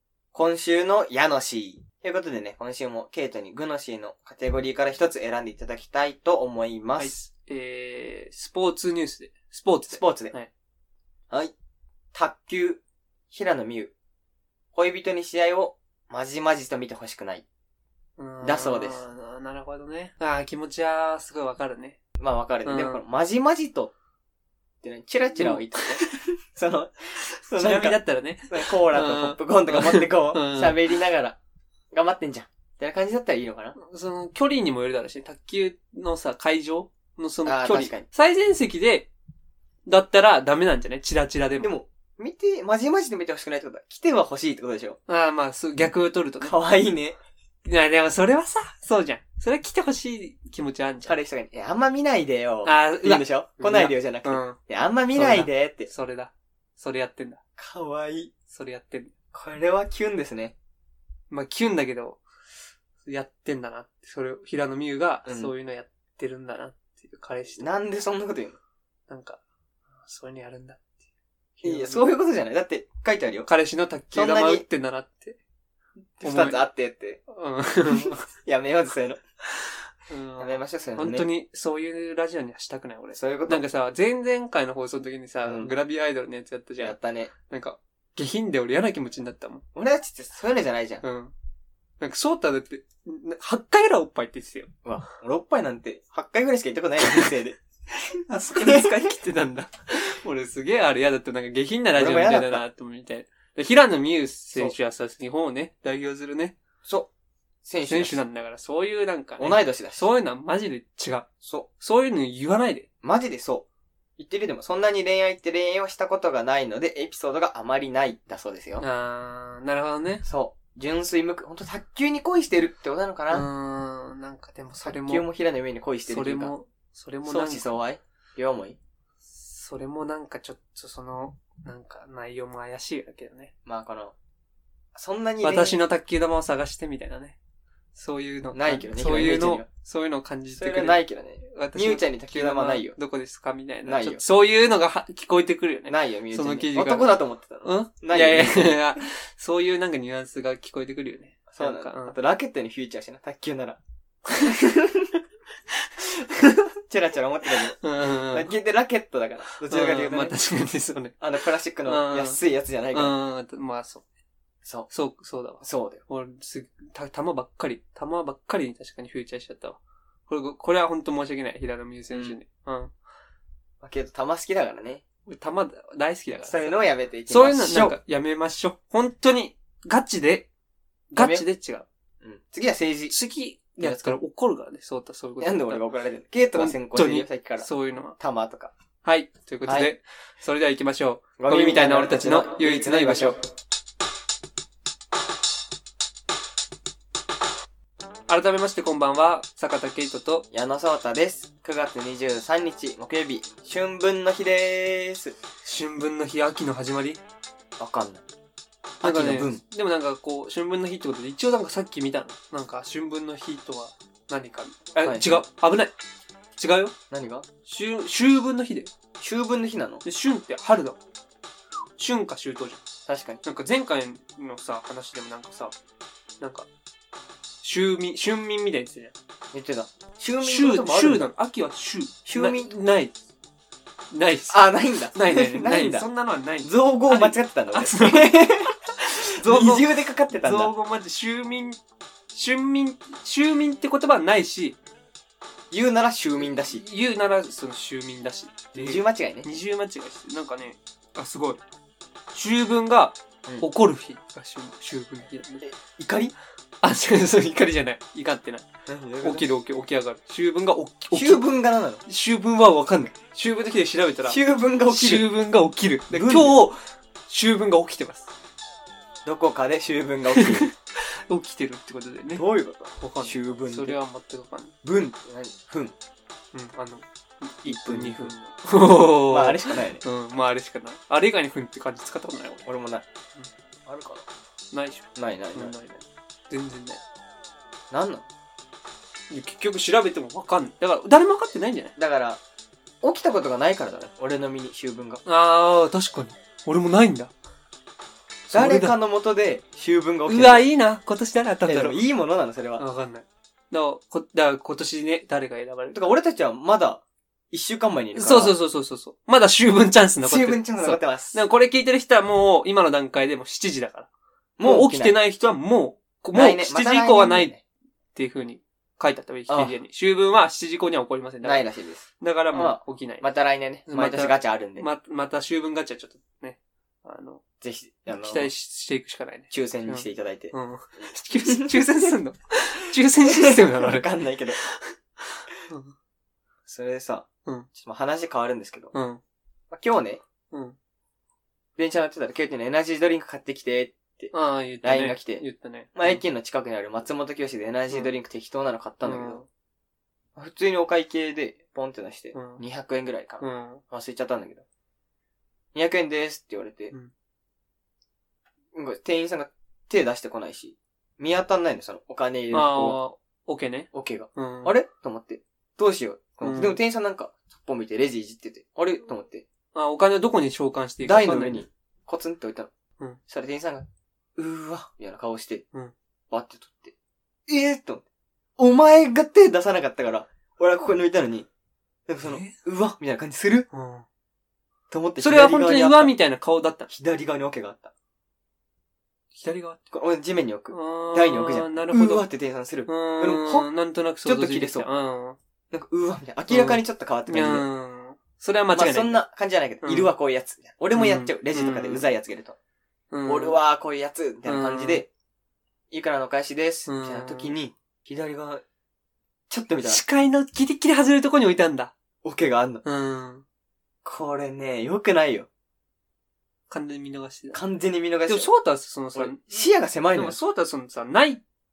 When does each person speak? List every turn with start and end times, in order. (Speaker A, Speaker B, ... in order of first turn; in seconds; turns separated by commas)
Speaker A: 0.3-7.1, Speaker B: 7.0-10.5, Speaker A: 9.9-10.3, Speaker A: 12.1-13.9, Speaker A: 14.7-17.4, Speaker B: 18.2-22.0, Speaker A: 18.4-19.0, Speaker A: 22.2-23.9, Speaker B: 22.6-23.0, Speaker A: 24.8-28.0, Speaker B: 25.4-25.9, Speaker B: 27.2-30.8, Speaker A: 28.5-31.4, Speaker A: 31.9-33.7, Speaker B: 33.8-39.1, Speaker A: 37.4-38.0, Speaker B: 39.9-41.7, Speaker A: 41.6-45.0, Speaker B: 45.1-46.5, Speaker A: 46.4-47.2, Speaker B: 47.6-51.2, Speaker A: 51.0-55.9, Speaker B: 52.6-54.6, Speaker B: 55.1-57.4, Speaker A: 57.6-58.3, Speaker B: 58.5-59.1, Speaker A: 59.3-60.5, Speaker B: 61.3-62.2, Speaker B: 63.0-67.7, Speaker A: 65.2-65.5, Speaker A: 67.6-68.6, Speaker B: 69.1-69.4, Speaker B: 70.0-70.8, Speaker B: 71.6-72.1, Speaker A: 71.6-73.5, Speaker B: 73.5-75.4, Speaker A: 74.1-74.6, Speaker A: 76.2-77.2, Speaker B: 76.2-76.6, Speaker B: 77.3-78.2, Speaker A: 77.9-79.2, Speaker B: 80.1-89.6, Speaker A: 80.4-81.3, Speaker A: 83.1-83.6, Speaker A: 85.4-85.7, Speaker A: 86.8-87.3, Speaker A: 89.7-91.0, Speaker B: 91.0-91.3, Speaker B: 92.0-94.7, Speaker A: 94.8-97.6, Speaker B: 97.0-97.3, Speaker B: 98.3-106.5, Speaker A: 98.5-99.1, Speaker A: 101.9-102.6, Speaker A: 106.8-107.1, Speaker A: 107.6-108.2, Speaker B: 107.9-111.3, Speaker A: 109.4-110.0, Speaker A: 111.4-111.7, Speaker B: 111.8-112.9, Speaker A: 113.0-113.7, Speaker A: 114.2-118.8, Speaker B: 118.8-120.2, Speaker A: 120.2-123.5, Speaker B: 123.3-125.2, Speaker A: 124.8-126.5, Speaker B: 126.1-127.7, Speaker A: 127.2-128.8, Speaker B: 129.3-133.5, Speaker A: 133.6-134.1, Speaker A: 134.9-135.8, Speaker B: 135.4-137.4, Speaker B: 137.9-152.2, Speaker A: 138.5-139.7, Speaker A: 140.5-143.0, Speaker A: 143.8-144.2, Speaker A: 145.9-148.8, Speaker A: 151.5-153.8, Speaker A: 154.3-155.2, Speaker A: 156.0-160.4, Speaker B: 157.5-158.5, Speaker B: 159.5-161.2, Speaker A: 161.2-163.1, Speaker B: 161.8-162.4, Speaker B: 162.9-164.0, Speaker A: 164.6-164.9, Speaker B: 164.9-172.9, Speaker A: 165.6-166.0, Speaker A: 173.8-175.0, Speaker B: 175.3-176.8, Speaker A: 176.4-177.9, Speaker B: 177.3-180.5, Speaker B: 181.1-181.8, Speaker A: 181.2-181.4, Speaker A: 182.2-183.1, Speaker B: 183.1-185.9, Speaker A: 183.8-184.2, Speaker A: 185.4-187.7, Speaker B: 186.5-188.2, Speaker A: 188.2-188.7, Speaker B: 189.0-193.4, Speaker A: 191.4-193.4, Speaker B: 198.3-200.4, Speaker A: 200.5-205.3, Speaker B: 205.6-207.2, Speaker A: 207.8-208.2, Speaker B: 209.0-215.9, Speaker A: 209.0-209.6, Speaker A: 215.0-215.4, Speaker B: 216.6-216.9, Speaker A: 217.1-217.4, Speaker B: 217.7-218.9, Speaker A: 219.2-220.0, Speaker B: 220.0-221.0, Speaker B: 222.0-222.8, Speaker A: 223.1-223.4, Speaker B: 223.4-225.7, Speaker B: 226.4-226.7, Speaker B: 227.6-229.1, Speaker A: 229.5-231.3, Speaker B: 230.4-233.1, Speaker A: 232.2-232.7, Speaker B: 234.1-234.6, Speaker A: 234.5-236.1, Speaker B: 235.1-241.8, Speaker A: 236.6-238.7, Speaker A: 239.3-240.7, Speaker B: 242.3-244.8, Speaker A: 245.7-246.8, Speaker B: 246.7-251.6, Speaker A: 248.7-249.5, Speaker B: 252.3-255.7, Speaker A: 255.6-256.3, Speaker B: 256.8-258.7, Speaker A: 258.9-259.5, Speaker B: 259.2-261.4, Speaker A: 261.1-262.0, Speaker B: 262.1-268.3, Speaker A: 264.2-265.3, Speaker A: 266.1-266.6, Speaker A: 269.2-270.7, Speaker B: 270.3-272.4, Speaker A: 272.3-274.0, Speaker B: 273.0-274.7, Speaker A: 274.8-275.9, Speaker B: 276.5-282.6, Speaker A: 277.6-278.3, Speaker A: 279.3-280.0, Speaker A: 282.6-283.1, Speaker A: 283.9-284.2, Speaker B: 284.7-287.0, Speaker A: 285.1-285.7, Speaker A: 287.9-288.2, Speaker B: 289.3-291.9, Speaker A: 291.9-292.4, Speaker A: 293.0-295.2, Speaker B: 295.2-297.3, Speaker B: 298.5-298.9, Speaker A: 298.5-300.7, Speaker B: 300.2-302.0, Speaker A: 301.6-302.8, Speaker B: 302.8-306.0, Speaker A: 305.9-308.5, Speaker B: 308.1-314.1, Speaker A: 310.2-311.4, Speaker A: 314.6-315.1, Speaker B: 314.6-317.5, Speaker A: 316.3-317.6, Speaker B: 318.1-321.6, Speaker A: 319.5-319.7, Speaker A: 321.4-324.9, Speaker B: 322.2-323.3, Speaker B: 323.9-327.4, Speaker A: 327.6-328.5, Speaker B: 328.1-335.9, Speaker A: 329.5-331.9, Speaker A: 333.2-334.6, Speaker A: 336.7-338.9, Speaker B: 338.9-339.2, Speaker A: 339.7-340.2, Speaker B: 340.5-340.8, Speaker A: 341.8-345.4, Speaker B: 344.3-346.2, Speaker A: 345.9-349.4, Speaker B: 349.0-349.4, Speaker A: 350.4-354.6, Speaker B: 352.3-352.6, Speaker B: 353.4-353.8, Speaker A: 355.7-356.9, Speaker A: 358.7-363.0, Speaker B: 362.5-364.8, Speaker A: 363.9-369.4, Speaker B: 366.4-366.8, Speaker B: 369.7-371.6, Speaker A: 371.0-372.7, Speaker A: 373.3-375.6, Speaker A: 376.3-376.9, Speaker A: 377.5-378.1, Speaker A: 378.6-381.5, Speaker A: 382.1-383.7, Speaker B: 382.2-382.6, Speaker B: 383.7-384.1, Speaker A: 384.9-386.1, Speaker B: 385.2-386.9, Speaker A: 386.9-387.9, Speaker B: 389.3-389.8, Speaker A: 389.9-393.7, Speaker B: 390.7-392.2, Speaker B: 392.9-395.4, Speaker A: 394.2-394.9, Speaker A: 395.7-397.6, Speaker B: 396.5-399.2, Speaker A: 398.7-402.6, Speaker B: 399.8-400.1, Speaker B: 400.9-402.1, Speaker B: 403.1-403.6, Speaker A: 403.2-405.1, Speaker B: 404.4-405.0, Speaker A: 405.9-408.6, Speaker B: 406.9-407.5, Speaker A: 409.5-410.0, Speaker B: 409.8-411.9, Speaker A: 412.2-412.8, Speaker B: 412.8-413.4, Speaker A: 414.0-415.5, Speaker B: 416.7-417.6, Speaker A: 417.5-418.5, Speaker B: 418.3-421.4, Speaker A: 419.1-420.4